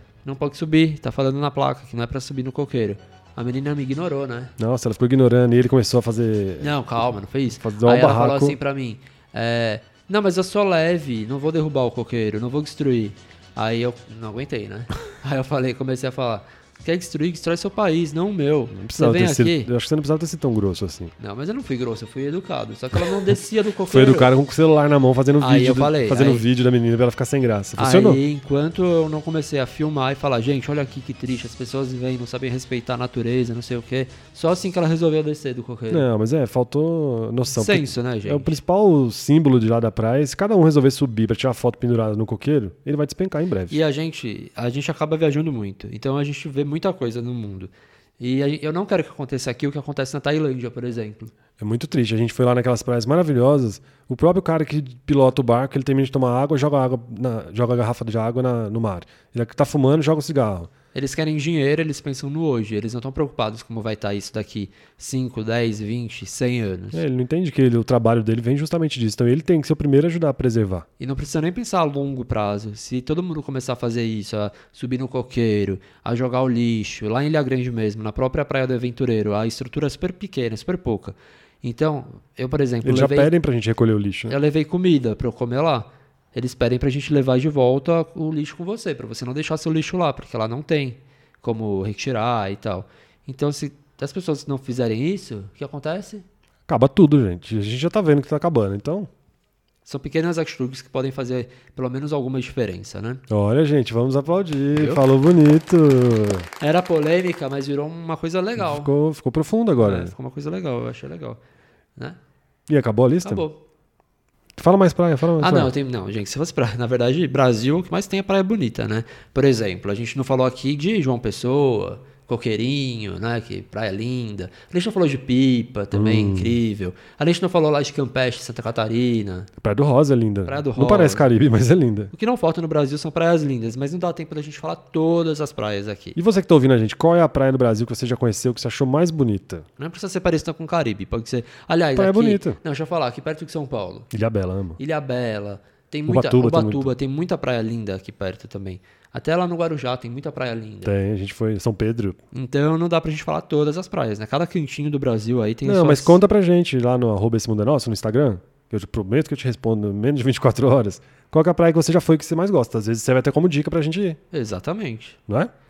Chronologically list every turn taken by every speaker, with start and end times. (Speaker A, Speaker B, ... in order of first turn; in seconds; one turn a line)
Speaker A: 0.2-4.5
Speaker B: 4.6-6.8
Speaker A: 6.6-19.7
Speaker B: 7.5-8.6
Speaker B: 18.7-21.1
Speaker A: 21.2-24.3
Speaker B: 23.9-28.2
Speaker A: 25.4-26.4
Speaker A: 27.8-36.1
Speaker B: 35.9-43.8
Speaker A: 37.5-38.6
Speaker A: 43.7-51.3
Speaker B: 51.6-60.7
Speaker A: 60.9-67.0
Speaker B: 66.9-70.9
Speaker A: 71.0-83.3
Speaker B: 82.8-84.4
Speaker A: 84.3-96.2
Speaker B: 96.7-99.1
Speaker A: 99.8-103.2
Speaker B: 103.3-106.5
Speaker A: 104.8-105.0
Speaker A: 106.6-108.9
Speaker B: 108.6-110.1
Speaker A: 109.8-111.4
Speaker B: 112.7-113.5
Speaker A: 113.2-113.6
Speaker B: 114.6-115.7
Speaker A: 115.4-129.5
Speaker B: 125.9-126.6
Speaker B: 129.6-132.1
Speaker A: 130.4-131.2
Speaker A: 132.1-136.2
Speaker B: 136.2-139.7
Speaker A: 139.8-144.1
Speaker B: 141.9-142.6
Speaker B: 144.1-144.8
Speaker A: 144.8-150.9
Speaker B: 146.1-146.9
Speaker B: 150.8-152.2
Speaker A: 152.3-156.2
Speaker B: 155.6-164.2
Speaker A: 164.3-165.2